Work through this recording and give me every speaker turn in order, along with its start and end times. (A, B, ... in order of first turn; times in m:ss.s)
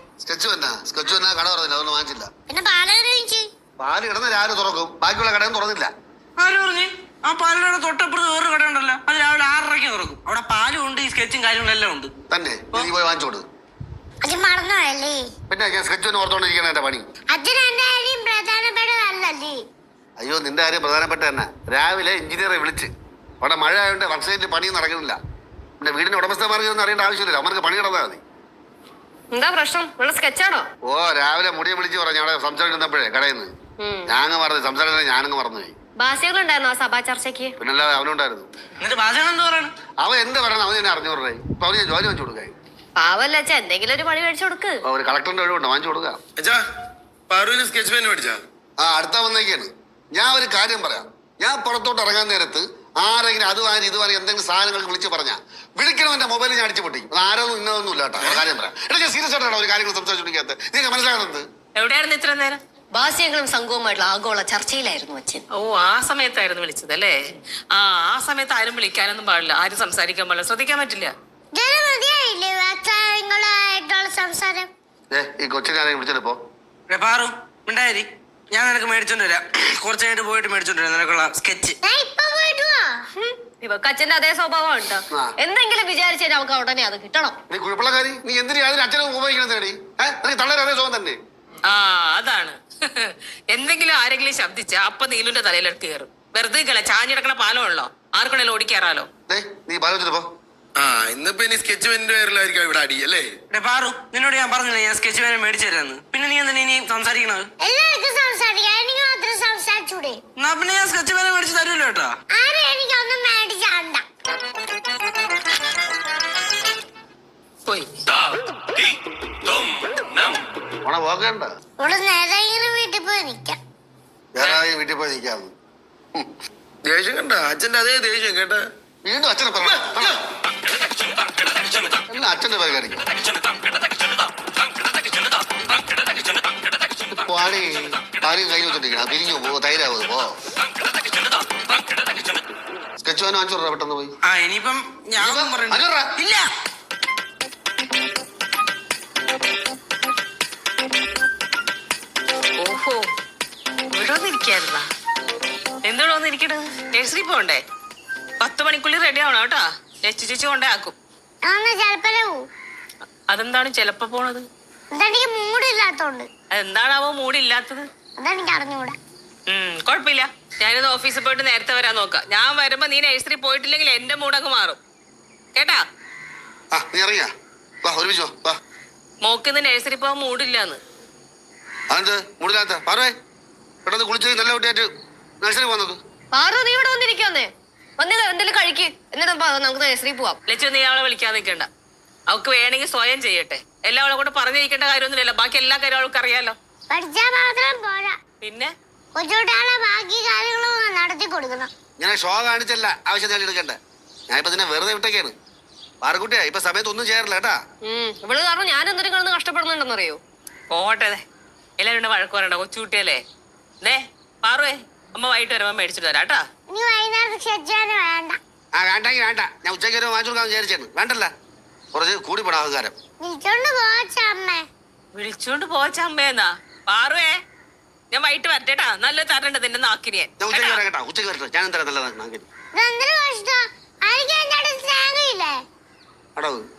0:00.2-0:02.3 A
0:02.5-0:03.5 B
0:03.8-0:05.9 A
0:06.4-0:12.1 C
0:12.3-0:13.4 A
0:14.2-0:15.3 B
0:15.5-0:17.1 A
0:17.3-0:19.6 B
0:20.2-0:25.2 A
0:25.8-0:28.2 A
0:29.3-0:30.7 D
0:30.8-0:33.5 A
0:33.8-0:34.2 D
0:34.1-0:35.8 A
0:36.0-0:37.6 D
0:37.6-0:38.5 A
0:38.8-0:39.7 C
0:40.0-0:42.5 A
0:43.0-0:44.8 D
0:44.9-0:46.2 A
0:46.4-0:46.6 E
0:47.3-0:48.5 E
0:48.8-1:01.4 A
1:01.8-1:02.6 F
1:02.9-1:05.4 D
1:05.5-1:07.2 F
1:07.7-1:11.1 F
1:11.5-1:14.7 B
1:15.1-1:16.4 A
1:16.9-1:21.8 C
1:21.8-1:23.0 B
1:23.2-1:27.4 D
1:27.5-1:31.2 A
1:31.7-1:39.1 F
1:39.3-1:40.3 A
1:40.8-1:43.3 E
1:43.5-1:47.5 C
1:47.6-1:50.2 B
1:50.4-1:52.2 C
1:52.3-1:54.0 B
2:00.8-2:01.5 A
2:01.8-2:03.6 B
2:04.4-2:05.5 A
2:06.8-2:08.7 E
2:09.0-2:10.2 A
2:12.1-2:13.1 A
2:17.1-2:20.4 A
2:23.0-2:24.1 A
2:24.2-2:26.5 C
2:25.2-2:26.1 A
2:32.6-2:33.0 F
2:33.9-2:34.9 F
2:35.8-2:37.6 F
2:38.4-2:41.0 F
2:41.4-2:42.4 B
2:43.3-2:44.5 F
2:44.9-2:46.3 B
2:46.5-2:47.8 F
2:48.2-2:49.0 B
2:49.5-2:54.8 F
2:55.6-2:55.8 F
2:56.7-2:57.3 A
2:57.8-2:58.6 A
2:59.2-3:00.8 F
3:01.9-3:03.1 A
3:03.8-3:04.9 A
3:05.4-3:06.0 A
3:06.3-3:10.4 D
3:10.5-3:11.7 F
3:12.3-3:16.6 F
3:16.9-3:18.2 B
3:18.4-3:18.7 F
3:19.2-3:21.7 B
3:22.0-3:23.8 A
3:24.3-3:25.3 A
3:26.0-3:27.6 A
3:27.8-3:30.2 D
3:30.7-3:31.2 F
3:31.8-3:33.2 F
3:33.8-3:36.4 F
3:36.7-3:38.4 B
3:38.7-3:41.3 A
3:41.9-3:42.9 A
3:43.2-3:44.6 B
3:45.2-3:47.3 F
3:48.1-3:50.8 F
3:50.4-3:52.5 A
3:52.8-3:55.6 B
3:56.4-3:56.6 A